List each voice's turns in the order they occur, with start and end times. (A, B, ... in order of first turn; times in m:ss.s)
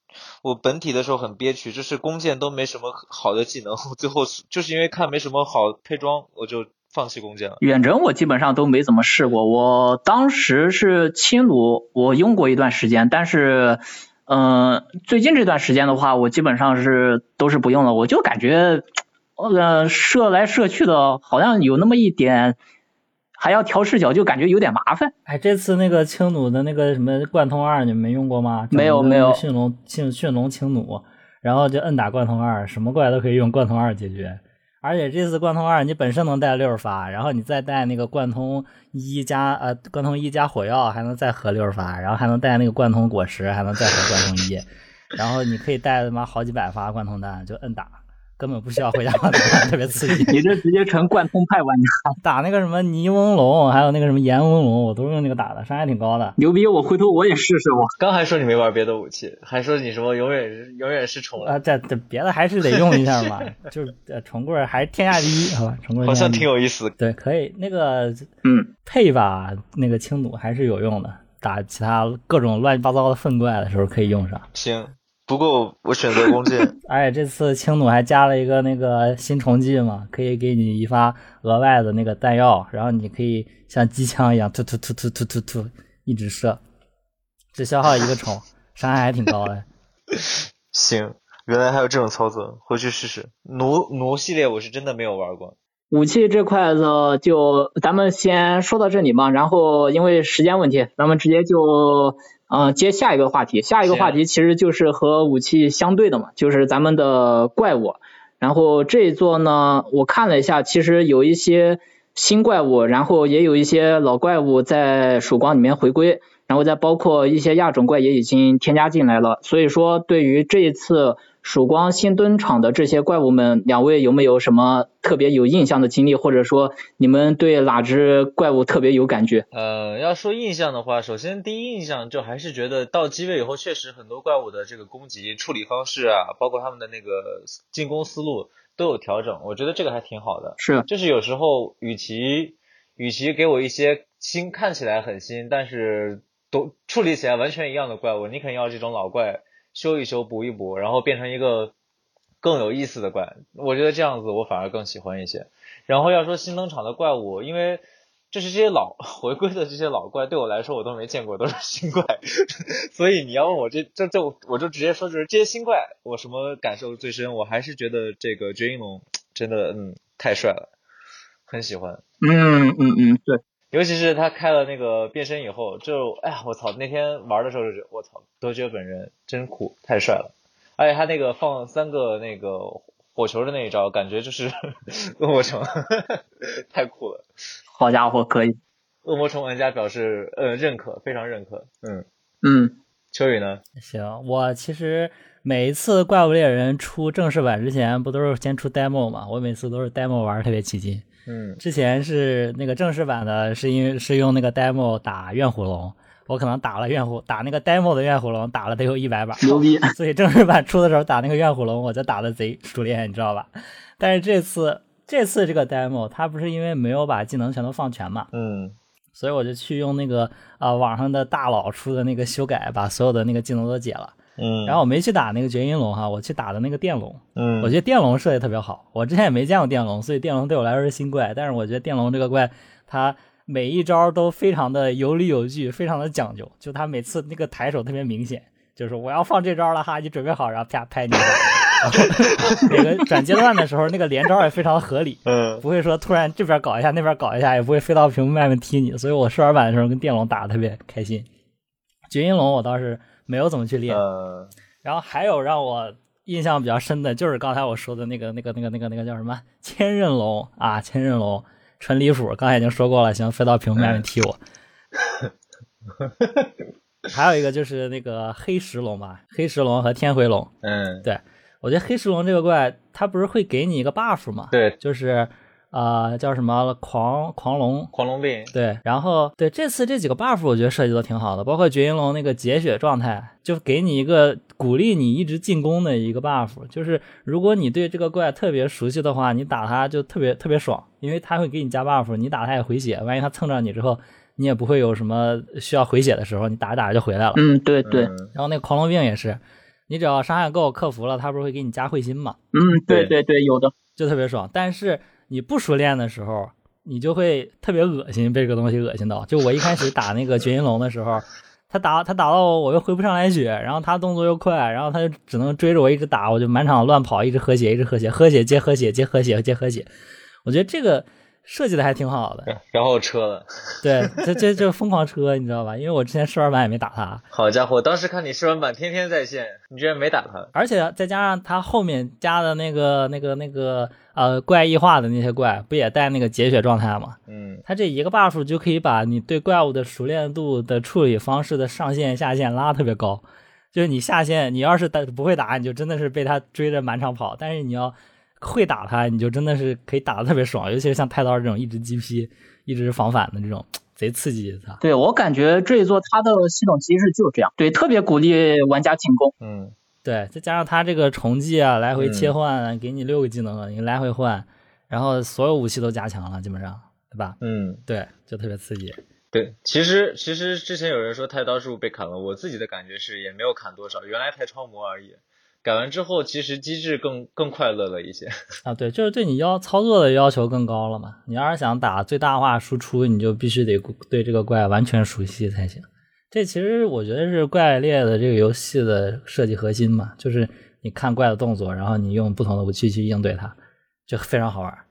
0:00.4-0:07.6 A
0:07.6-0:18.8 B
0:19.4-0:22.6 B
0:23.4-0:25.1 B
0:25.3-0:50.4 C
0:28.7-0:29.4 B
0:50.3-0:52.2 B
0:52.2-0:56.4 C
0:56.4-0:57.9 B
0:58.0-1:01.5 A
1:01.4-1:08.3 C
1:02.8-1:03.3 A
1:06.0-1:07.0 A
1:08.4-1:08.7 B
1:08.8-1:14.4 C
1:14.5-1:16.8 A
1:16.8-1:26.6 C
1:27.5-1:29.6 C
1:30.1-1:35.6 A
1:35.9-2:09.4 B
1:43.8-1:44.2 A
2:09.5-2:31.7 A
2:20.6-2:20.9 B
2:32.4-2:50.7 A
2:51.5-2:52.0 A
2:52.2-2:53.4 B
2:53.7-3:07.2 A
3:07.8-3:08.6 B
3:09.0-3:12.0 A
3:12.4-3:12.8 B
3:13.1-3:13.6 A
3:13.8-3:21.0 C
3:21.2-3:21.6 A
3:21.6-3:38.3 C
3:29.4-3:29.9 B
3:38.3-3:38.7 A
3:39.1-4:11.3 C
3:44.4-3:44.8 A
3:47.4-3:47.7 A
4:01.9-4:02.8 A
4:05.3-4:05.6 A
4:12.1-4:14.0 C
4:13.9-4:14.5 A
4:14.8-4:24.4 C
4:23.8-4:24.0 A
4:25.0-4:25.3 A
4:26.0-4:26.5 A
4:27.1-4:30.5 C
4:30.6-4:31.0 A
4:31.0-4:37.9 C
4:34.5-4:34.8 A
4:37.9-4:38.5 A
4:38.5-4:57.4 C
4:57.4-4:58.1 B
4:57.9-4:58.3 A
4:58.3-5:02.4 C
5:02.5-5:03.7 B
5:04.0-5:19.9 C
5:20.4-5:22.5 C
5:22.5-5:24.2 A
5:23.8-5:27.2 C
5:27.3-5:30.5 A
5:30.5-5:54.8 C
5:37.3-5:37.6 A
5:54.8-5:59.3 B
5:59.4-5:59.7 A
6:00.0-6:09.0 C
6:02.0-6:02.3 A
6:07.4-6:07.8 A
6:09.3-6:18.3 A
6:18.6-6:33.5 C
6:34.1-6:34.8 C